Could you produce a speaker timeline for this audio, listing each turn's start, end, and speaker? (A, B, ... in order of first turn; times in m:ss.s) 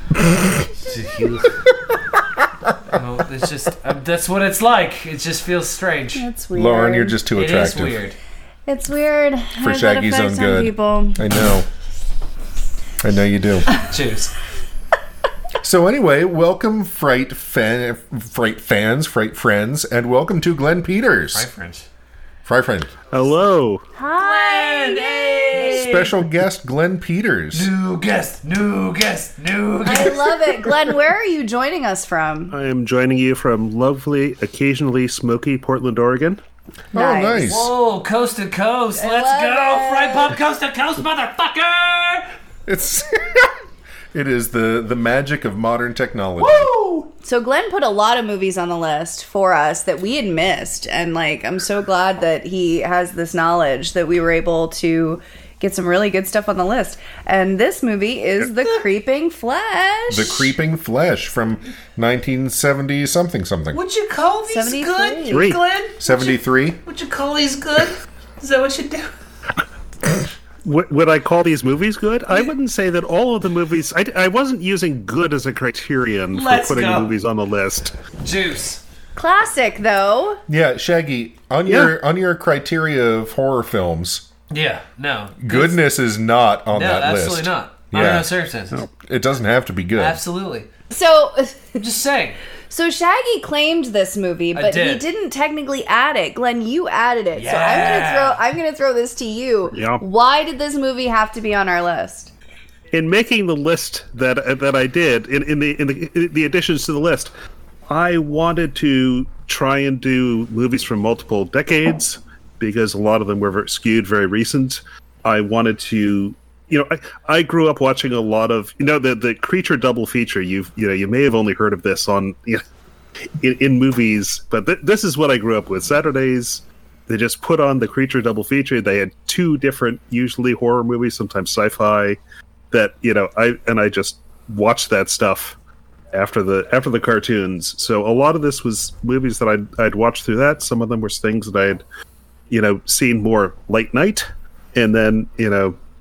0:00.7-0:01.6 A
0:02.9-0:06.3 A
0:06.1-0:07.2 B
0:06.5-0:08.0 C
0:07.3-0:08.2 A
0:08.7-0:11.2 B
0:09.6-0:11.7 C
0:13.0-0:13.7 C
0:13.7-0:14.3 A
0:15.6-0:21.5 C
0:21.3-0:21.8 A
0:22.4-0:22.9 C
0:23.1-0:23.8 D
0:24.0-0:26.0 B
0:24.2-0:26.1 A
0:25.6-0:27.7 C
0:27.5-0:30.6 A
0:29.8-0:32.5 B
0:32.5-0:36.4 D
0:36.9-0:37.5 B
0:36.9-0:37.7 C
0:37.4-0:42.3 A
0:39.0-0:40.4 B
0:42.6-0:43.5 C
0:44.1-0:46.7 C
0:46.4-0:47.1 A
0:47.2-1:00.5 B
1:00.1-1:03.8 C
1:03.7-1:09.1 A
1:04.5-1:05.6 B
1:05.3-1:05.6 D
1:06.0-1:06.8 C
1:10.6-1:18.0 D
1:16.3-1:17.1 A
1:18.2-1:18.8 A
1:19.2-1:20.4 B
1:20.5-1:24.2 C
1:21.7-1:21.9 D
1:24.5-1:25.8 A
1:25.4-1:28.3 C
1:26.7-1:28.8 A
1:28.9-1:30.2 C
1:30.0-1:30.7 A
1:30.9-1:31.8 B
1:31.8-1:32.4 A
1:32.7-1:42.3 B
1:34.5-1:35.1 A
1:37.3-1:38.4 A
1:39.7-1:40.0 D
1:42.9-1:47.3 D
1:47.9-2:02.6 D
2:03.4-2:12.2 D
2:12.7-2:15.6 D
2:16.1-2:21.8 D
2:22.5-2:25.8 D